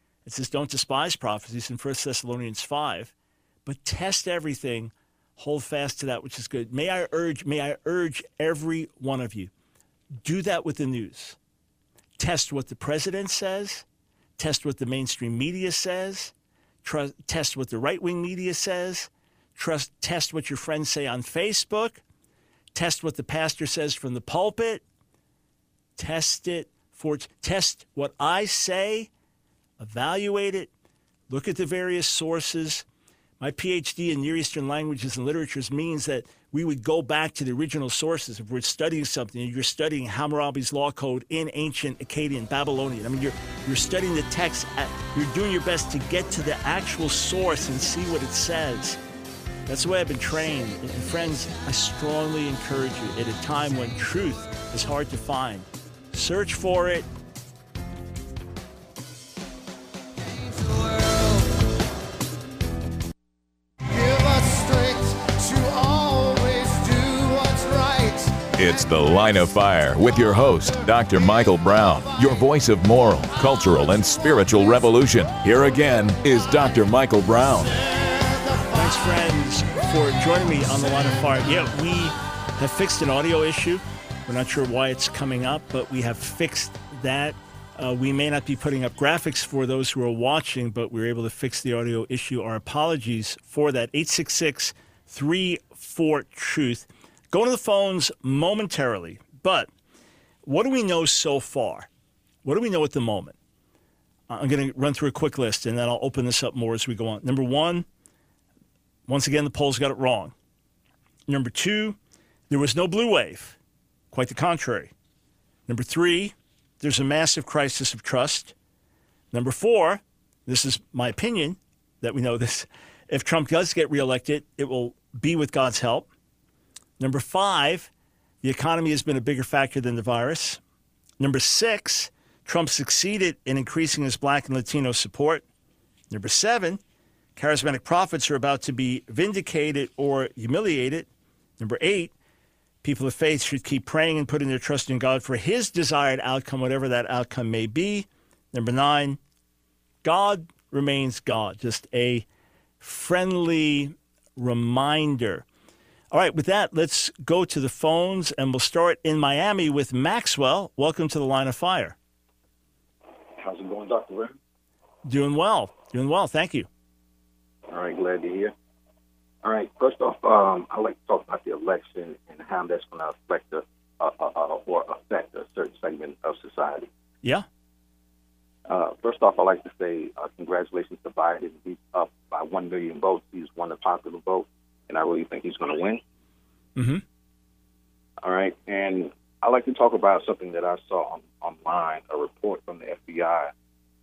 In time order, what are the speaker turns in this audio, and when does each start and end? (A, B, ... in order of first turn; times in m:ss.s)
0:00.2-0:03.1 A
0:03.6-0:09.5 A
0:10.2-0:11.4 A
0:12.2-0:13.8 A
0:14.4-0:22.0 A
0:22.7-0:24.8 A
0:26.0-0:29.1 A
0:29.8-0:30.7 A
0:31.3-0:32.8 A
0:33.4-0:49.0 A
0:49.6-0:57.1 A
1:08.4-1:17.8 B
1:18.7-1:39.7 A
1:40.4-1:41.9 A
1:42.4-1:43.3 A
1:44.3-1:47.9 A
1:49.1-1:50.3 A
1:51.3-1:52.0 A
1:52.5-1:53.6 A
1:54.1-1:54.9 A
1:55.7-1:58.5 A
1:59.3-2:06.1 A
2:07.0-2:07.9 A
2:08.4-2:10.6 A
2:11.2-2:15.4 A
2:16.1-2:16.8 A
2:17.4-2:22.1 A
2:22.8-2:29.2 A
2:30.0-2:32.2 A
2:32.8-2:35.4 A
2:36.1-2:42.0 A
2:43.4-2:44.4 C
2:45.0-2:46.7 A
2:47.7-2:48.5 C
2:49.4-2:56.9 C
2:58.7-3:06.0 C
3:06.8-3:07.0 A
3:08.2-3:13.5 C